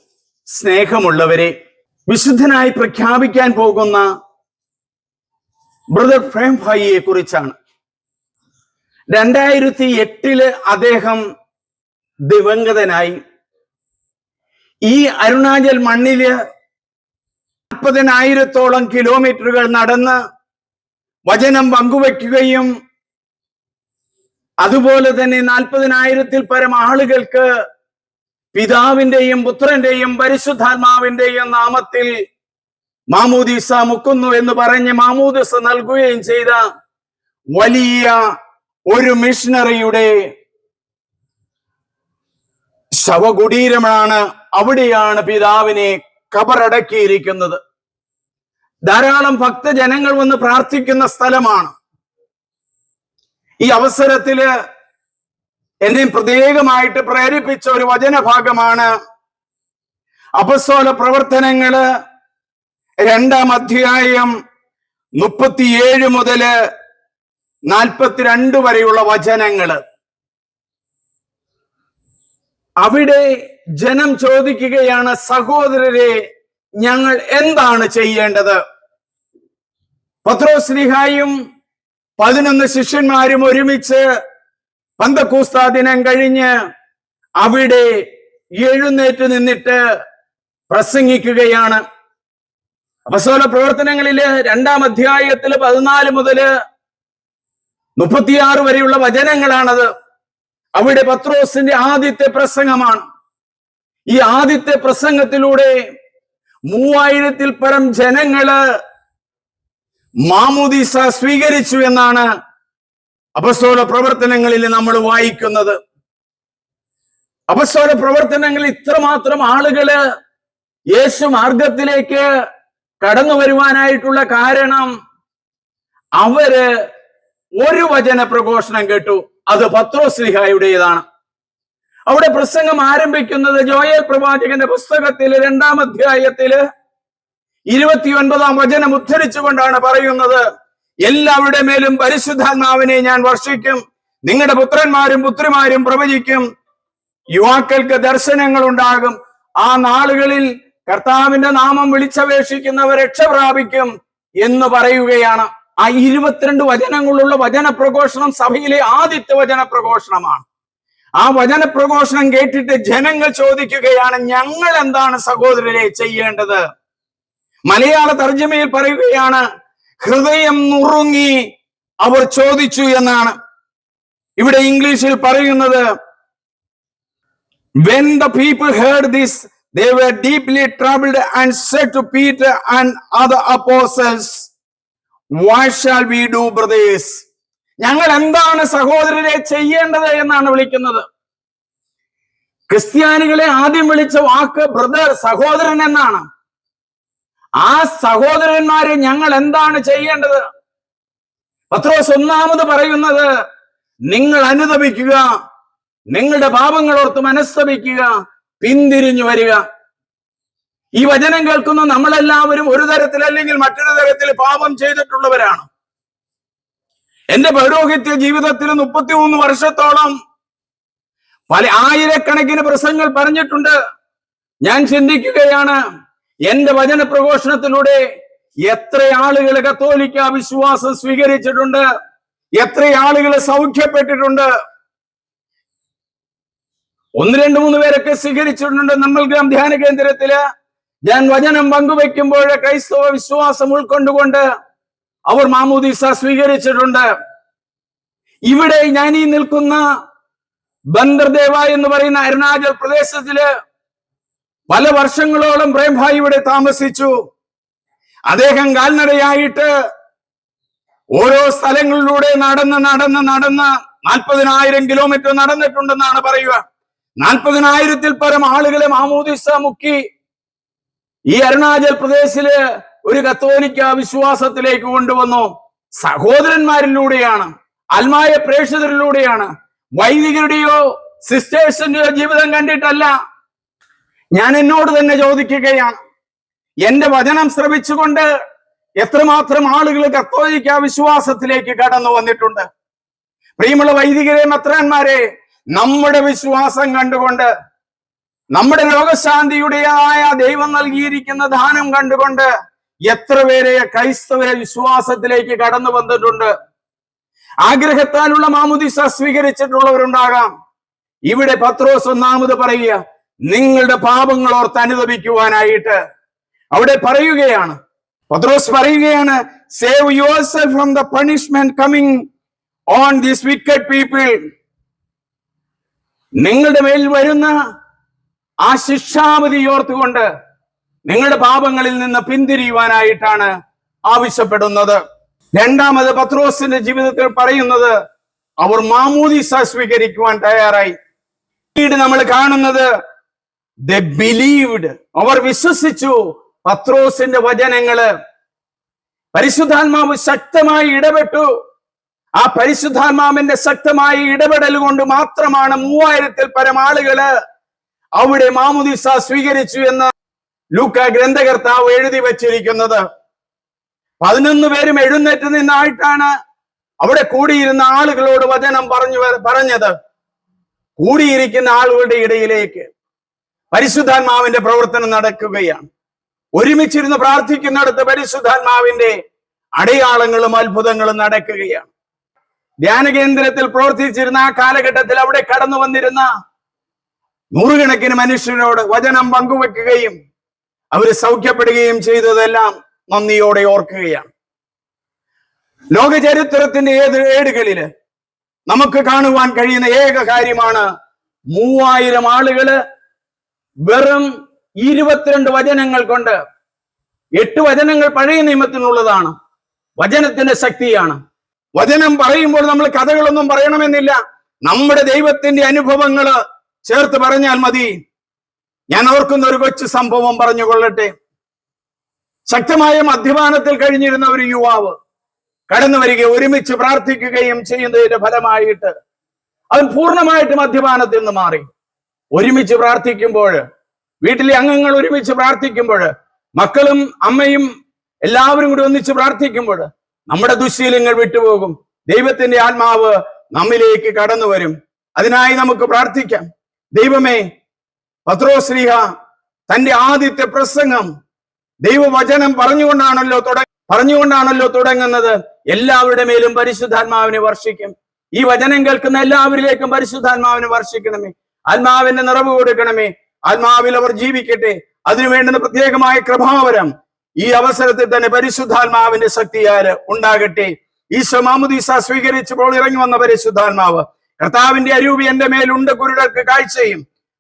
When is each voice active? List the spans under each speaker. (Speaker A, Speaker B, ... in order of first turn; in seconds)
Speaker A: 0.5-1.5, 2.1-4.1, 5.9-7.6, 9.1-11.2, 12.3-13.2, 14.9-16.4, 17.7-20.2, 21.3-22.7, 24.6-27.5, 28.5-32.1, 33.1-36.6, 37.5-38.2, 38.9-40.2, 43.0-47.6, 48.9-51.7, 53.6-54.5, 55.8-58.9, 60.4-61.8, 63.1-64.3, 65.2-66.5, 67.7-69.8, 72.8-73.2, 73.8-76.2, 76.8-78.6, 80.2-81.3, 82.2-84.0, 85.0-86.5, 87.4-87.9, 88.6-89.8, 90.7-91.8, 93.1-96.5, 98.0-99.9, 100.8-103.0, 104.1-105.8, 106.7-108.6, 110.3-112.3, 113.4-115.8, 117.5-120.0, 120.9-122.3, 123.0-124.9, 126.2-126.7, 127.6-131.0, 132.1-136.6, 137.7-140.4, 141.0-146.4, 147.3-160.4, 161.2-166.6, 167.7-169.4, 170.0-171.4, 172.0-173.3, 174.4-175.9, 177.8-184.5, 185.4-187.2, 187.8-191.0, 192.7-196.3, 197.6-200.4, 201.7-203.3, 204.1-205.3, 206.1-209.6, 211.0-215.7, 217.3-220.1, 221.5-223.8, 224.7-225.8, 226.5-228.0, 228.7-231.8, 232.6-234.5, 237.2-240.4, 241.1-244.4, 245.3-247.1, 248.5-249.8, 250.9-253.5, 254.7-257.1, 258.3-259.7, 261.2-266.6, 267.2-270.0, 271.3-283.1, 284.4-286.0, 286.8-288.3, 289.0-292.7, 293.6-295.2, 295.8-297.5, 298.5-302.5, 303.1-306.5, 307.6-310.5, 311.3-316.0, 316.7-317.8, 318.3-322.2, 322.9-324.4, 326.4-327.5, 328.6-330.3, 331.1-333.5, 334.1-335.0, 335.5-337.9, 338.6-340.9, 341.8-342.9, 343.9-348.1, 349.3-351.5, 352.4-357.3, 358.2-360.1, 360.8-363.0, 364.2-366.3, 367.0-369.9, 371.0-372.9, 373.7-375.9, 376.6-379.1, 379.8-381.9, 382.8-386.3, 387.5-390.1, 390.9-394.3, 395.9-397.9, 398.7-400.9, 401.5-402.8, 403.9-404.3, 404.8-406.4, 407.4-409.3, 410.0-411.2, 411.8-417.9, 418.9-421.1, 422.5-424.9, 425.7-428.9, 429.7-431.7, 432.3-433.6, 434.2-437.7, 438.2-447.4, 448.3-449.0, 449.7-451.1, 451.8-477.0